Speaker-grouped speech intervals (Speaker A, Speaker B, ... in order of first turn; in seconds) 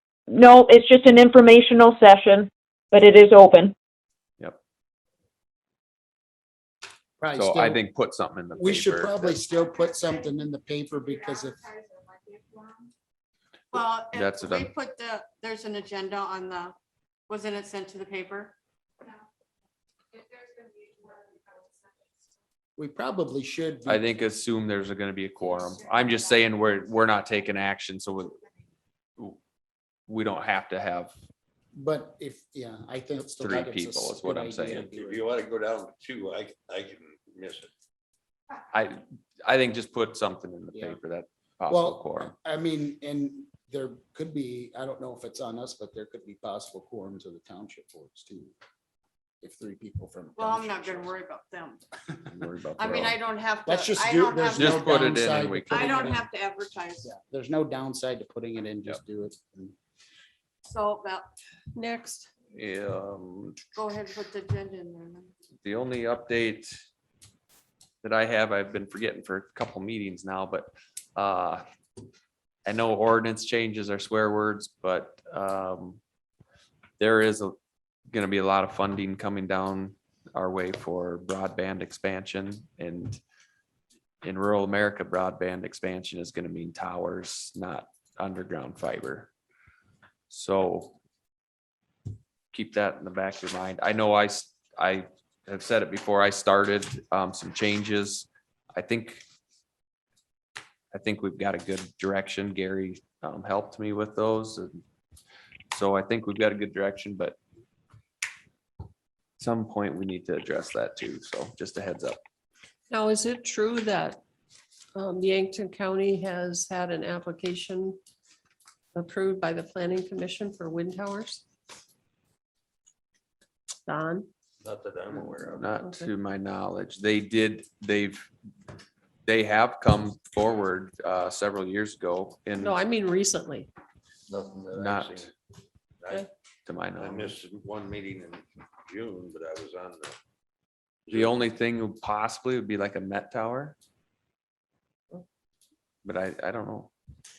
Speaker A: 0.3-3.7
Speaker B: 7.2-7.8, 8.6-11.7, 22.8-24.2, 31.8-35.2, 41.7-48.5, 49.4-51.1, 53.6-56.2, 57.0-59.7
Speaker C: 7.3-9.4, 14.1-14.7, 23.9-28.4, 30.1-31.1, 33.4-34.8, 38.7-42.3, 52.2-53.2, 54.5-56.2, 62.5-63.6, 65.6-66.7, 68.0-71.6, 72.7-76.0, 77.0-77.5, 78.1-83.2, 84.2-89.3, 90.3-91.0, 92.5-99.2, 100.9-104.8, 105.7-107.4, 109.4-112.2, 125.5-128.3, 129.2-132.8, 134.7-135.3, 136.7-137.3, 141.1-143.7, 146.0-146.9
Speaker D: 13.7-16.7, 17.3-18.5, 50.4-51.8, 52.8-57.1, 60.6-61.3, 63.8-65.3
Speaker E: 34.7-37.7, 124.6-125.6, 134.3-135.3, 136.0-136.3, 137.0-140.1, 141.1-141.4
Speaker F: 61.7-62.3, 112.9-114.2, 115.0-118.0, 118.9-121.4, 123.8-124.3, 125.6-126.1, 132.6-133.7